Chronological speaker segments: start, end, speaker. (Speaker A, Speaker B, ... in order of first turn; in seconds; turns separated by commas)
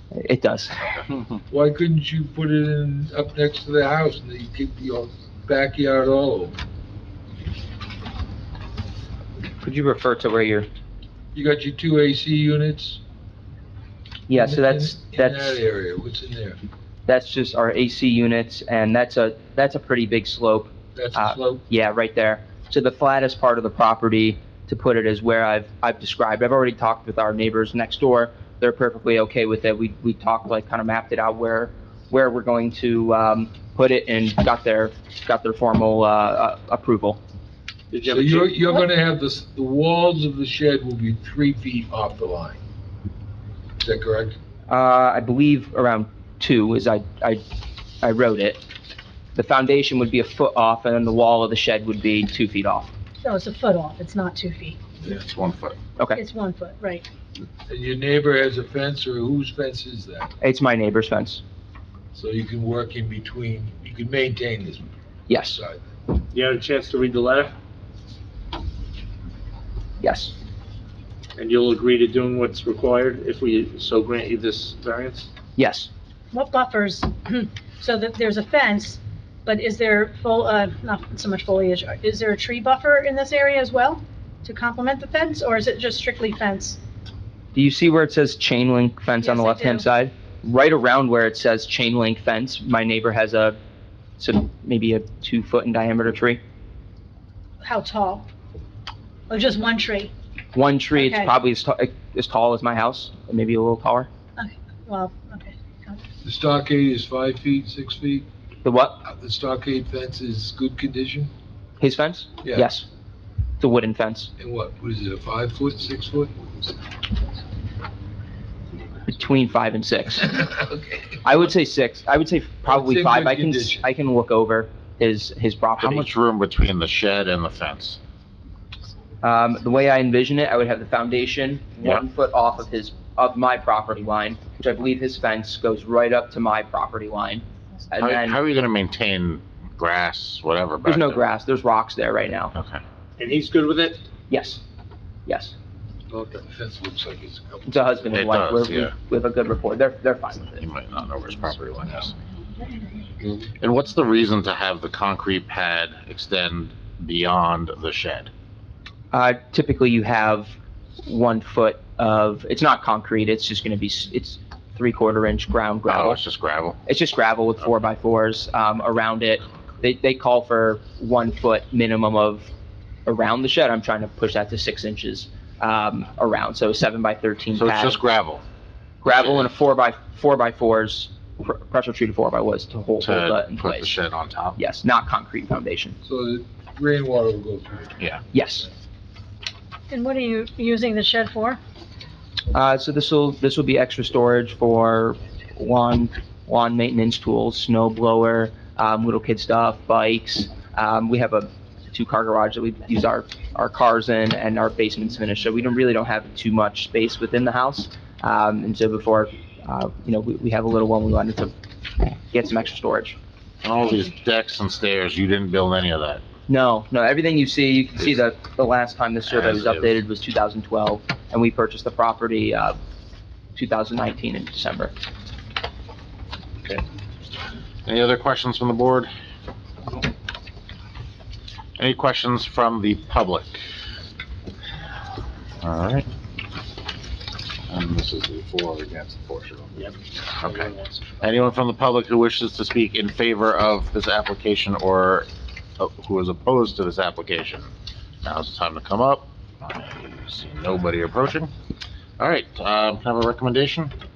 Speaker A: 0.1-1.0, Speaker B: 1.5-6.6, Speaker A: 9.6-10.7, Speaker B: 11.3-13.0, Speaker A: 14.3-15.6, Speaker B: 14.3-16.6, Speaker A: 17.1-37.2, Speaker B: 20.9-21.6, Speaker C: 37.9-38.6, Speaker B: 38.0-42.6, Speaker B: 43.8-44.4, Speaker A: 44.7-47.4, Speaker A: 48.0-48.6, Speaker A: 49.3-52.9, Speaker D: 53.2-54.8, Speaker E: 55.0-55.8, Speaker D: 56.1-57.0, Speaker B: 57.7-60.3, Speaker A: 60.4-61.4, Speaker B: 62.1-65.8, Speaker A: 65.3-65.6, Speaker C: 66.3-67.5, Speaker A: 70.0-70.3, Speaker C: 71.4-75.3, Speaker A: 75.5-75.9, Speaker D: 76.3-86.8, Speaker A: 87.5-93.6, Speaker D: 89.2-89.8, Speaker A: 94.2-96.4, Speaker D: 97.6-98.2, Speaker D: 99.3-100.1, Speaker A: 100.5-104.1, Speaker D: 100.9-101.3, Speaker D: 104.4-106.0, Speaker B: 106.2-108.3, Speaker A: 108.6-109.0, Speaker B: 109.0-111.3, Speaker A: 111.8-112.8, Speaker B: 112.4-112.7, Speaker A: 113.6-114.3, Speaker B: 114.4-116.7, Speaker A: 119.1-120.4, Speaker B: 120.4-120.8, Speaker A: 121.2-126.0, Speaker B: 122.6-123.8, Speaker E: 125.8-128.0, Speaker A: 129.2-138.4, Speaker E: 137.9-141.2, Speaker A: 140.8-142.5, Speaker E: 142.5-142.8, Speaker C: 143.2-144.0, Speaker A: 144.3-144.6, Speaker A: 145.2-145.5, Speaker C: 146.1-146.4, Speaker B: 146.4-147.8, Speaker A: 147.7-150.6, Speaker E: 148.1-148.9, Speaker E: 150.6-152.2, Speaker E: 153.5-158.3, Speaker A: 159.1-166.2, Speaker E: 165.8-166.8, Speaker A: 166.8-172.5, Speaker A: 173.1-178.0, Speaker E: 177.5-178.4, Speaker A: 179.0-183.9, Speaker E: 179.1-179.5, Speaker E: 183.0-184.6, Speaker A: 184.6-185.9, Speaker B: 186.0-187.9, Speaker E: 188.0-188.2, Speaker A: 188.3-188.7, Speaker D: 189.9-191.6, Speaker A: 192.5-211.5, Speaker A: 212.3-213.2, Speaker E: 213.6-216.2, Speaker A: 216.5-222.8, Speaker E: 219.3-220.0, Speaker A: 223.5-224.9, Speaker E: 227.8-229.1, Speaker E: 231.8-233.6, Speaker E: 235.6-236.1, Speaker E: 237.7-247.7, Speaker C: 240.4-241.0, Speaker E: 248.2-251.5, Speaker E: 252.2-253.9